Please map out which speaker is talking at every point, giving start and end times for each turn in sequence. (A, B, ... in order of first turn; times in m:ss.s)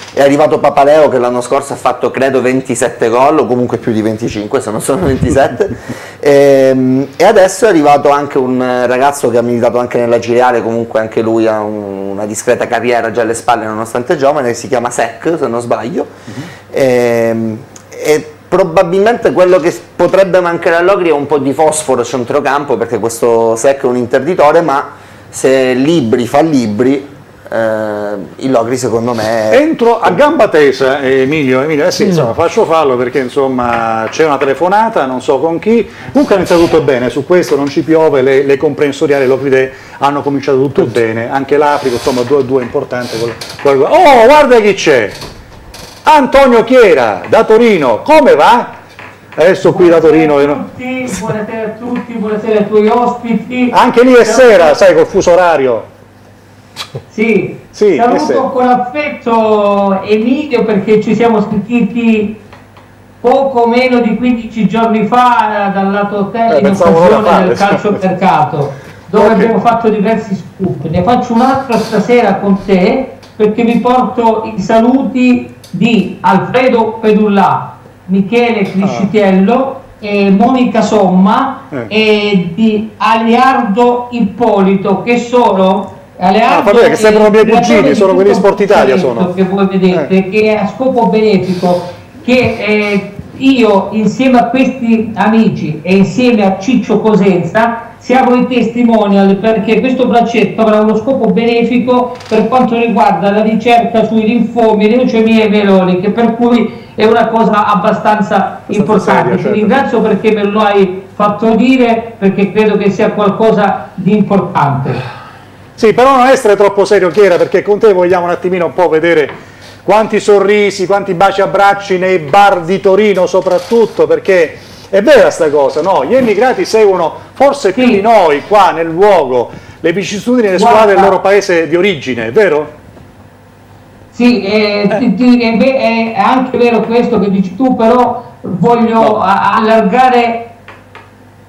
0:00.1-0:16.1 A
0:16.7-0:30.1 A
0:29.5-0:45.2 B
0:46.0-0:48.8 B
0:49.4-0:50.6 B
0:49.6-0:54.8 C
0:53.7-0:55.9 B
0:57.1-1:02.4 C
0:57.7-0:58.4 B
1:03.2-1:55.0 C
1:06.5-1:08.0 B
1:09.1-1:09.5 B
1:18.8-1:19.1 B
1:26.5-1:29.3 B
1:48.7-1:49.9 B
1:55.8-2:12.7 B
2:10.5-2:11.2 C
2:14.1-2:20.5 C